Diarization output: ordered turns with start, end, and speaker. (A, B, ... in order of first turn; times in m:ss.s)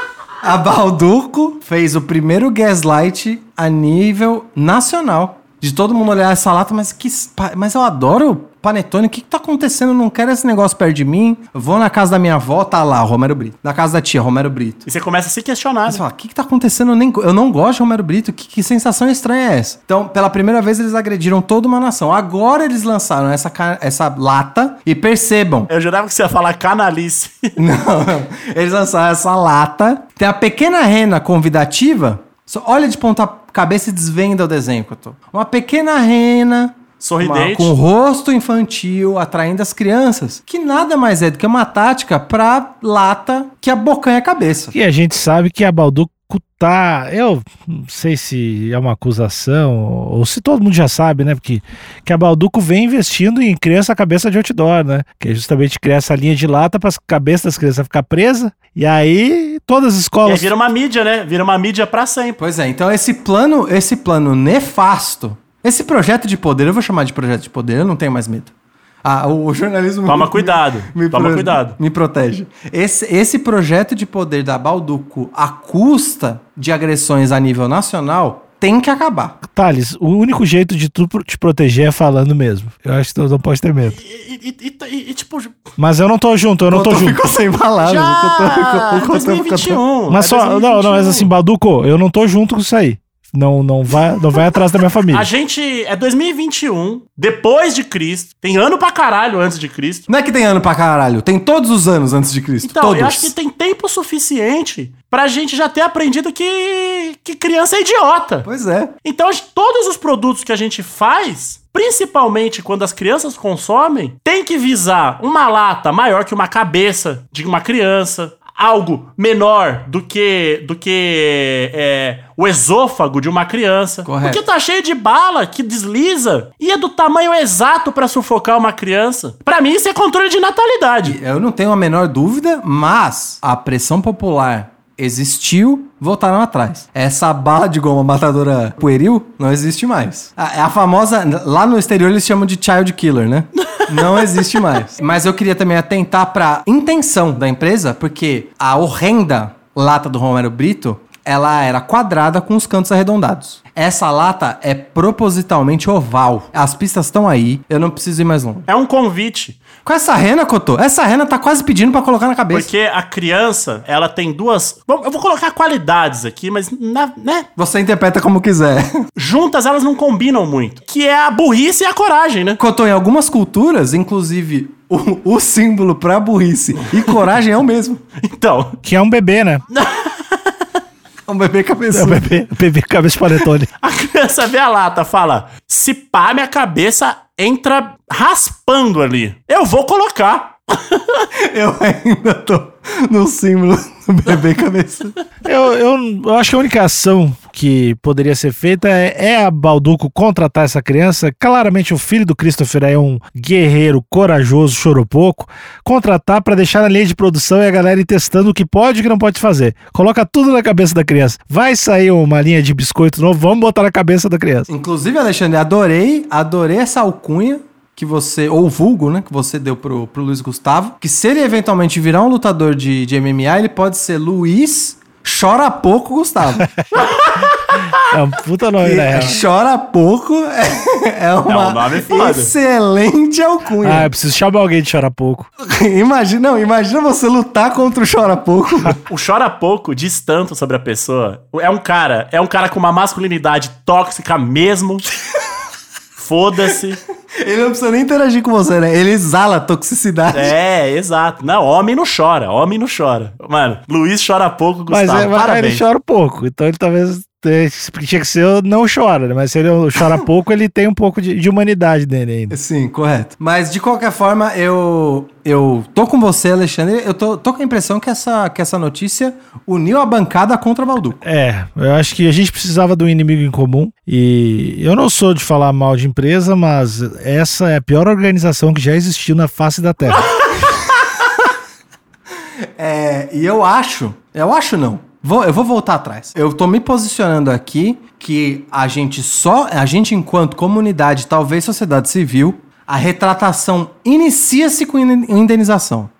0:00.4-0:14.8 A
0:14.8-0:16.0 B
0:15.9-0:25.7 A
0:25.7-0:27.6 B
0:27.6-0:44.7 A
0:37.0-0:37.8 B
0:44.7-1:00.5 C
1:00.2-1:02.4 B
1:02.4-1:08.5 A
1:09.0-1:19.4 A
1:10.1-1:11.8 B
1:19.5-1:24.0 C
1:23.9-1:25.7 B
1:25.8-1:27.2 C
1:26.7-1:29.8 A
1:27.8-1:31.3 B
1:30.1-1:35.3 C
1:35.1-1:40.1 B
1:40.1-1:43.3 A
1:42.6-1:48.5 B
1:48.4-1:48.9 A
1:49.0-2:11.2 B
2:04.0-2:04.4 A
2:11.0-2:38.6 A
2:23.6-2:23.9 B
2:38.7-2:39.6 B
2:39.8-2:42.7 A
2:42.5-2:47.5 B
2:47.6-2:49.1 A
2:49.2-2:52.6 B
2:52.6-2:58.0 A
2:58.2-2:58.8 B
2:58.8-2:59.6 C
2:59.7-3:00.5 B
3:01.3-3:02.5 A
3:01.9-3:03.7 C
3:03.8-3:11.3 B
3:11.3-3:15.1 A
3:15.4-3:34.7 C
3:34.7-3:46.7 A
3:47.0-3:48.0 B
3:47.9-3:49.4 C
3:48.8-3:54.1 A
3:51.4-3:52.5 B
3:53.8-3:55.5 C
3:55.6-3:59.0 A
3:59.0-4:05.0 B
4:06.2-4:07.0 B
4:07.3-4:10.5 A
4:10.3-4:15.8 B
4:14.9-4:22.5 C
4:22.5-4:31.2 A
4:31.2-4:40.3 C
4:40.2-4:40.9 B
4:42.6-4:56.1 A